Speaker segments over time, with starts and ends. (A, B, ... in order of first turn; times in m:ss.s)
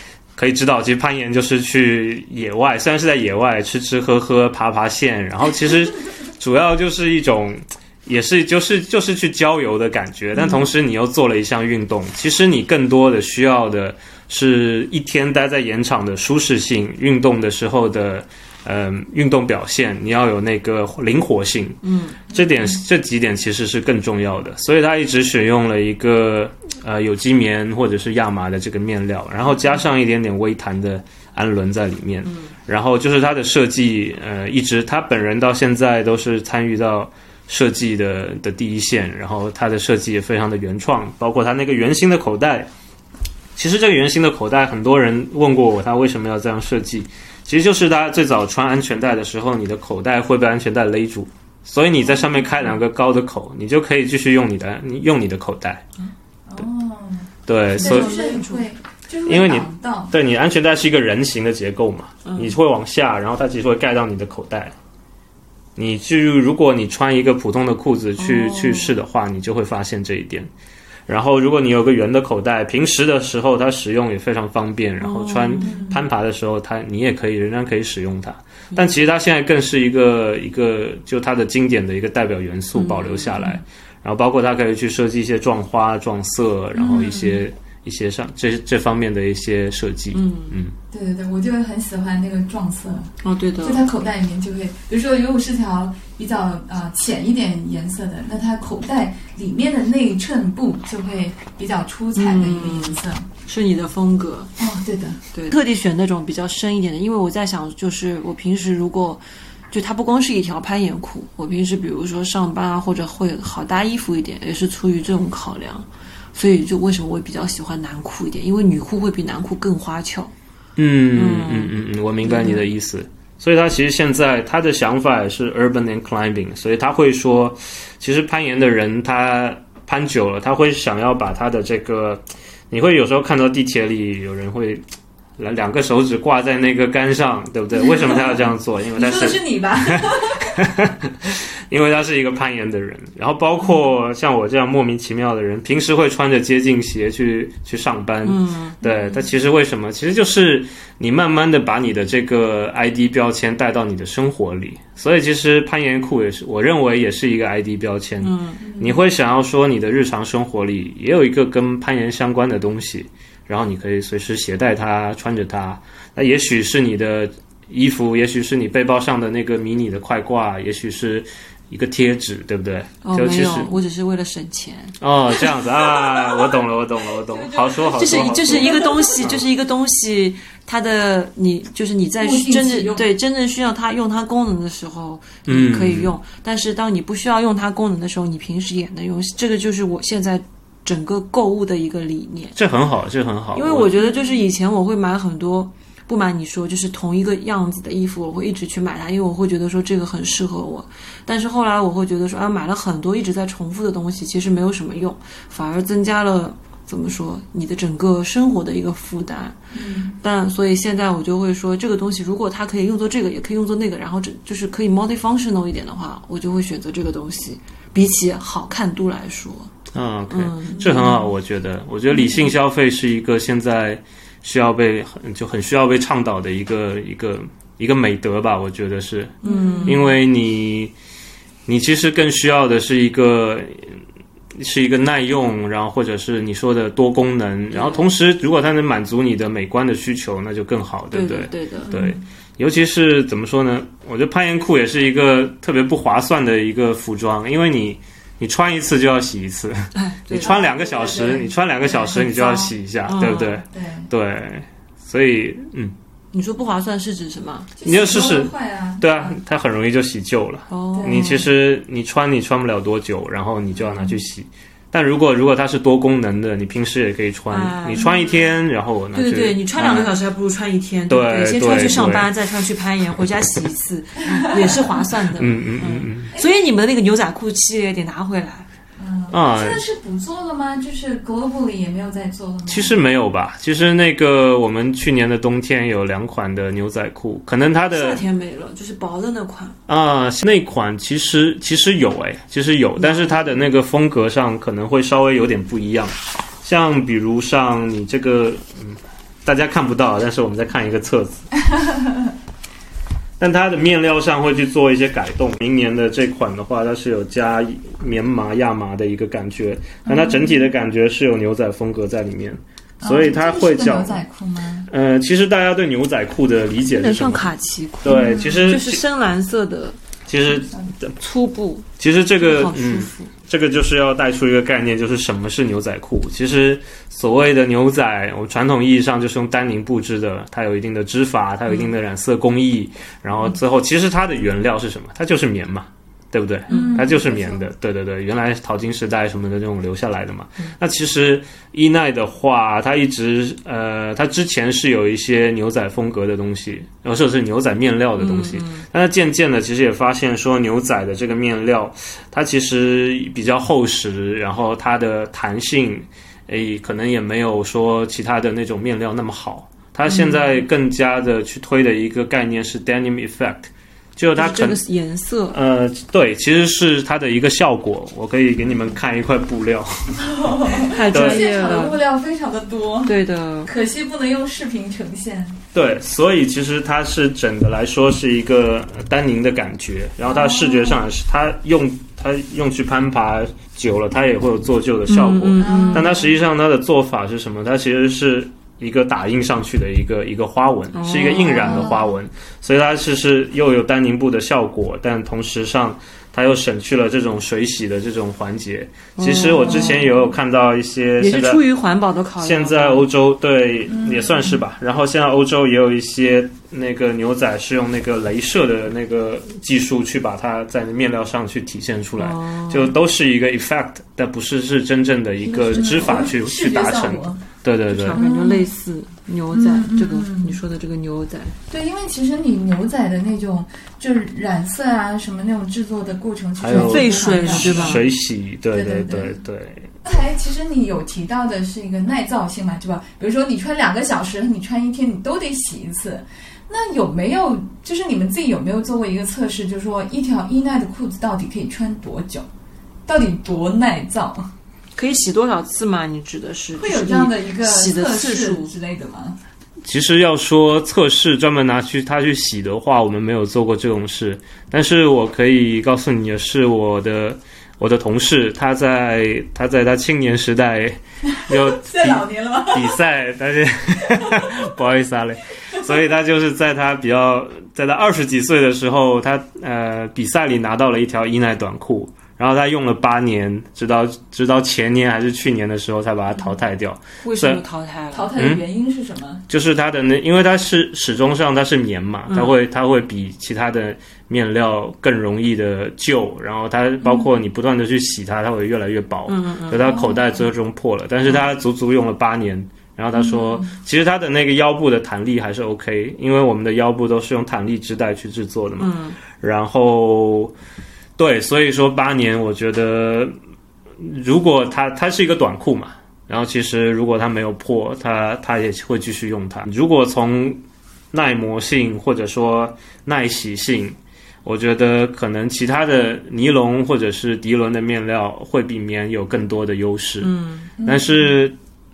0:00.4-0:42.7 A
0:21.8-0:22.2 B
0:32.3-0:32.5 B
0:43.6-0:55.8 A
0:52.0-0:52.7 C
0:56.5-1:00.1 C
0:57.5-0:58.1 A
0:57.8-0:58.6 B
0:59.2-1:04.7 A
1:02.2-1:02.6 B
1:05.8-1:10.5 A
1:08.2-1:08.9 B
1:11.1-1:30.7 A
1:15.0-1:15.8 B
1:15.6-1:16.0 C
1:22.7-1:23.5 B
1:26.7-1:27.4 C
1:30.1-1:30.6 B
1:30.9-1:43.3 C
1:33.2-1:33.8 B
1:42.2-1:44.5 B
1:44.6-1:45.2 C
1:45.3-2:00.3 B
2:00.8-2:14.8 A
2:01.1-2:02.6 B
2:15.4-2:53.7 A
2:17.8-2:20.6 C
2:28.2-2:28.8 B
2:28.8-2:29.2 C
2:38.2-2:38.6 B
2:38.6-2:39.0 C
2:53.0-2:56.5 B
2:55.0-2:59.5 A
2:57.3-2:59.2 C
2:57.6-3:12.6 B
3:02.2-3:03.1 C
3:05.5-3:06.1 A
3:12.5-3:13.9 A
3:13.5-3:29.6 B
3:14.0-3:14.4 C
3:29.7-3:30.2 C
3:30.2-3:39.7 B
3:39.9-3:50.9 A
3:40.3-3:41.2 B
3:40.7-3:41.2 C
3:49.4-3:50.1 B
3:49.4-3:50.1 C
3:51.6-3:54.0 A
3:54.6-4:15.9 A
3:57.7-3:58.0 B
4:01.1-4:01.9 B
4:01.8-4:02.2 C
4:09.9-4:10.5 B
4:10.4-4:12.7 C
4:13.1-4:13.6 B
4:13.7-4:14.1 C
4:16.3-4:17.7 B
4:17.8-4:19.4 C
4:17.8-4:30.1 A
4:20.7-4:21.4 B
4:20.9-4:21.4 C
4:27.5-4:28.3 B
4:28.0-4:28.4 C
4:29.1-4:38.7 B
4:31.1-4:32.3 A
4:34.4-4:35.0 C
4:35.4-4:36.3 A
4:36.3-4:36.6 C
4:39.0-4:43.0 C
4:39.3-4:39.8 A
4:42.7-4:48.2 A
4:47.9-4:49.8 B
4:49.9-5:01.5 A
4:53.0-4:53.3 B
5:01.8-5:02.1 C
5:03.4-5:14.2 A
5:10.0-5:10.7 C
5:13.0-5:14.9 C
5:14.9-5:17.5 A
5:16.9-5:20.0 B
5:18.0-5:19.0 A
5:18.0-5:18.7 C
5:20.3-5:21.1 A
5:21.2-5:21.9 B
5:22.0-6:04.8 A
5:22.4-5:23.3 B
5:36.7-5:37.7 C
5:36.7-5:37.1 B
5:48.2-5:48.8 B
6:00.1-6:00.5 B
6:04.4-6:05.6 B
6:05.5-6:09.9 A
6:10.2-6:13.1 C
6:10.8-6:12.0 B
6:11.1-6:11.5 A
6:13.0-6:13.7 B
6:13.6-6:15.6 C
6:15.7-6:41.6 A
6:20.3-6:21.0 C
6:25.1-6:26.1 B
6:25.6-6:26.3 C
6:30.9-6:32.0 B
6:31.6-6:32.1 C
6:39.2-6:40.1 B
6:41.2-6:43.1 B
6:42.4-6:58.2 A
6:43.9-6:44.6 C
6:52.2-6:52.9 B
6:55.6-6:56.3 B
6:55.6-6:57.4 C
6:57.9-7:01.6 B
6:58.1-6:58.7 C
6:59.5-7:00.6 C
7:01.7-7:08.1 C
7:06.6-7:09.9 A
7:06.7-7:08.0 B
7:08.7-7:09.3 C
7:10.0-7:22.5 C
7:23.1-7:24.5 C
7:25.0-7:28.7 B
7:26.8-7:29.4 C
7:29.8-7:57.6 A
7:41.3-7:43.0 C
7:44.2-7:44.4 C
7:57.2-7:58.3 B
7:58.1-7:59.4 C
7:58.4-7:58.6 A
7:59.5-8:20.5 A
8:02.3-8:02.5 B
8:09.3-8:09.8 B
8:09.8-8:10.4 C
8:13.1-8:13.8 C
8:18.8-8:19.2 B
8:21.2-8:23.3 A
8:24.0-8:30.6 A
8:31.1-8:40.3 A
8:40.2-8:40.7 B
8:40.8-8:41.4 C
8:40.8-8:41.6 A